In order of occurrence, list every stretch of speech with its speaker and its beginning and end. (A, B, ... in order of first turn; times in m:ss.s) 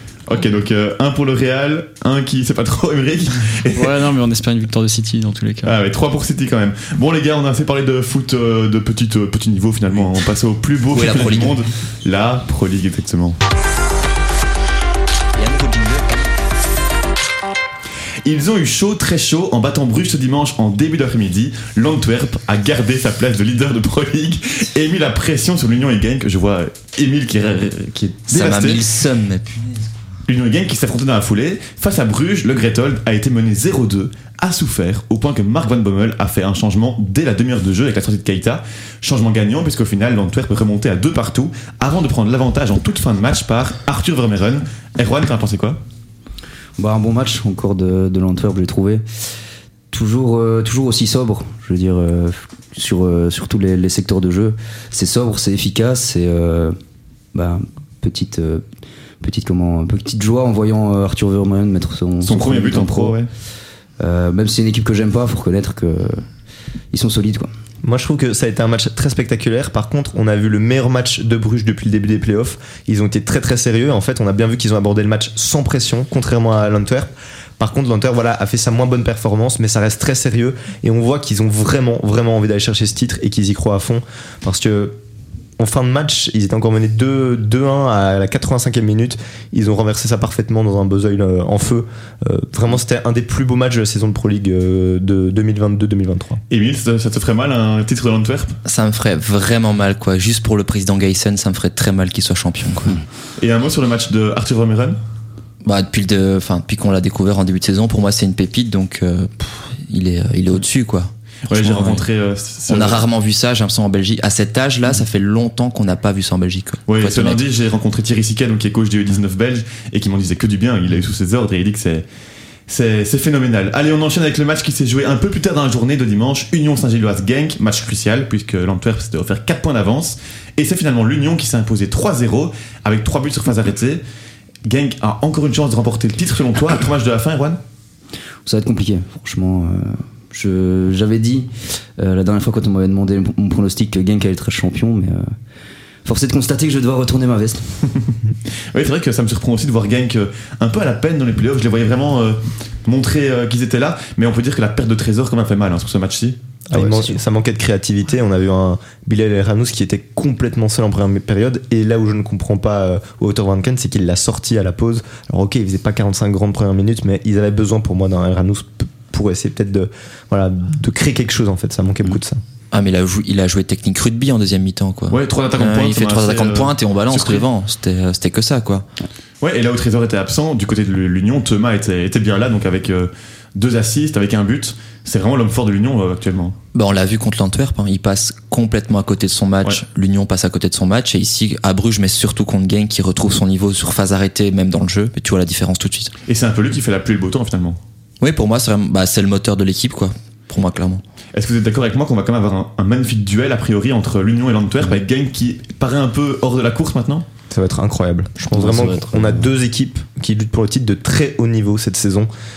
0:00.3-0:04.0 A
0:03.7-0:05.8 B
0:05.6-0:13.4 A
0:10.9-0:11.6 C
0:15.3-0:16.3 C
0:18.2-0:28.8 A
0:28.3-0:30.0 C
0:30.3-0:45.8 A
0:46.8-0:49.0 D
0:49.9-0:56.8 D
0:57.3-0:58.6 D
0:59.2-1:03.2 D
1:02.2-1:03.3 A
1:04.0-1:06.2 D
1:06.9-1:07.5 D
1:07.8-1:25.0 E
1:25.6-1:36.4 E
1:36.5-1:38.6 A
1:38.6-1:43.0 C
1:43.4-1:45.0 A
1:45.6-1:52.1 C
1:51.5-1:53.0 A
1:52.7-1:57.4 C
1:56.9-2:02.0 A
2:02.7-2:14.0 A
2:14.6-2:17.6 A
2:18.4-2:25.2 D
2:26.0-2:27.7 D
2:28.7-2:36.4 A
2:36.7-2:52.4 E
2:36.7-2:37.2 D
2:52.7-2:58.9 C
2:55.1-2:57.5 A
2:59.4-3:06.6 A
3:06.7-3:16.1 C
3:16.3-3:17.8 A
3:18.2-3:21.0 C
3:21.3-3:27.2 A
3:27.5-3:32.3 E
3:28.5-3:29.4 D